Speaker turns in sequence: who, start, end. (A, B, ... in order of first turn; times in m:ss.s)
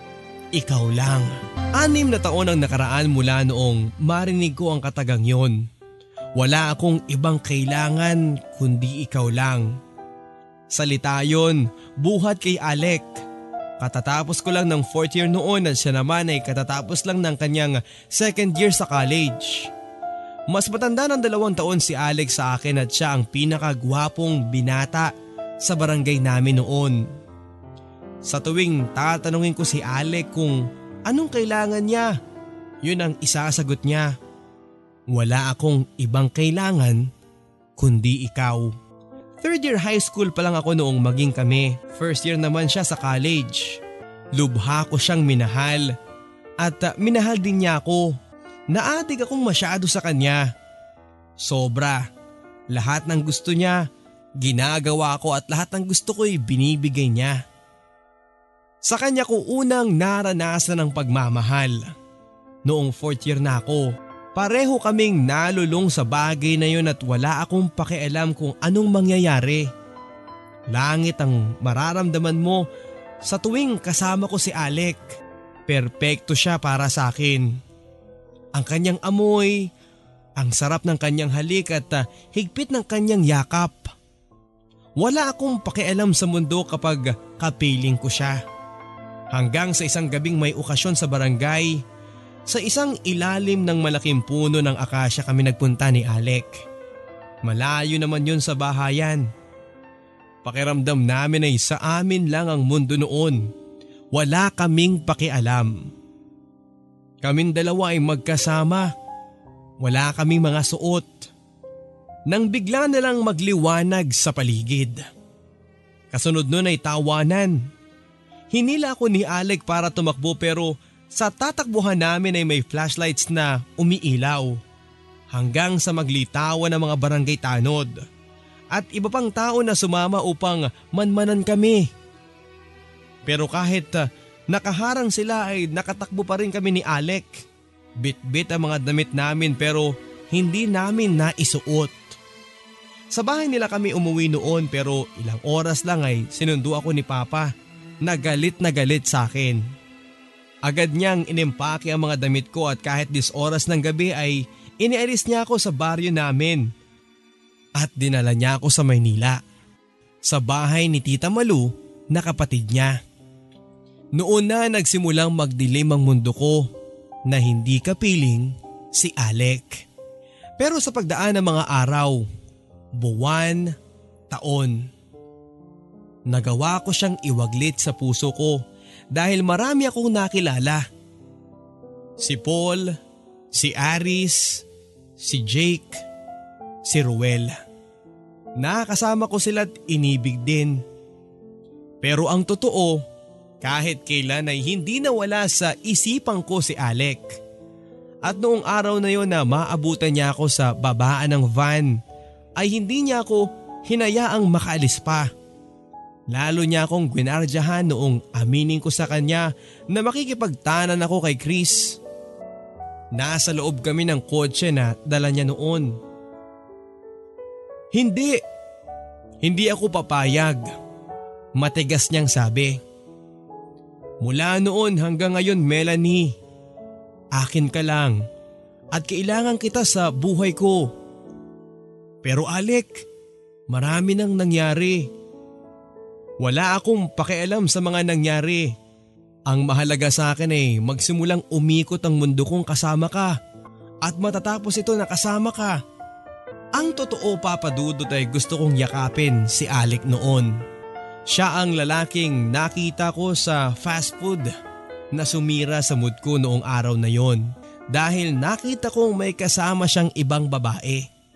0:00.5-0:05.6 A
0:06.4-0:09.8 A
0:10.7-0:13.1 A
0:13.8-0:19.7 A
0:20.5-0:25.1 A
0:25.6-0:27.1 A
0:28.2-0:32.2 A
0:32.8-0:34.1 A
0:35.1-0:37.1 A
0:37.8-0:38.7 A
0:39.4-0:43.8 A
0:44.3-0:45.9 A
0:46.6-0:48.2 A
0:48.7-0:50.5 A
0:51.4-0:52.0 A
0:52.7-0:53.8 A
0:54.4-0:57.4 A
0:58.8-1:01.9 A
1:02.6-1:09.7 A
1:10.7-1:12.6 A
1:13.2-1:15.0 A
1:15.7-1:17.5 A
1:18.5-1:19.7 A
1:20.4-1:23.9 A
1:25.0-1:28.4 A
1:29.3-1:31.8 A
1:32.5-1:36.6 A
1:37.4-1:39.3 A
1:40.4-1:43.5 A
1:44.1-1:45.9 A
1:47.2-1:48.9 A
1:49.8-1:51.3 A
1:52.3-1:55.0 A
1:56.1-1:57.6 A
1:58.5-2:04.6 A
2:05.3-2:08.0 A
2:08.7-2:11.9 A
2:13.2-2:17.4 A
2:18.0-2:22.2 A
2:23.1-2:27.5 A
2:28.0-2:29.6 A
2:30.6-2:36.7 A
2:37.8-2:39.4 A
2:40.2-2:43.0 A
2:44.2-2:46.7 A
2:47.3-2:49.8 A
2:50.6-2:52.2 A
2:53.0-2:53.7 A
2:54.3-2:54.9 A
2:56.3-2:58.6 A
2:59.1-3:00.8 A
3:02.2-3:03.0 A
3:03.5-3:04.6 A
3:05.2-3:06.0 A
3:06.8-3:07.6 A
3:08.6-3:10.8 A
3:12.0-3:13.0 A
3:13.6-3:17.4 A
3:18.2-3:22.0 A
3:22.6-3:25.3 A
3:26.3-3:32.0 A
3:33.1-3:36.0 A
3:37.9-3:38.4 A
3:39.4-3:40.7 A
3:41.6-3:42.8 A
3:44.2-3:46.3 A
3:47.3-3:48.2 A
3:48.9-3:50.9 A
3:52.2-3:53.0 A
3:53.7-3:55.1 A
3:56.4-3:58.7 A
3:59.5-4:03.3 A
4:04.0-4:05.8 A
4:06.8-4:10.6 A
4:11.3-4:14.5 A
4:15.1-4:21.1 A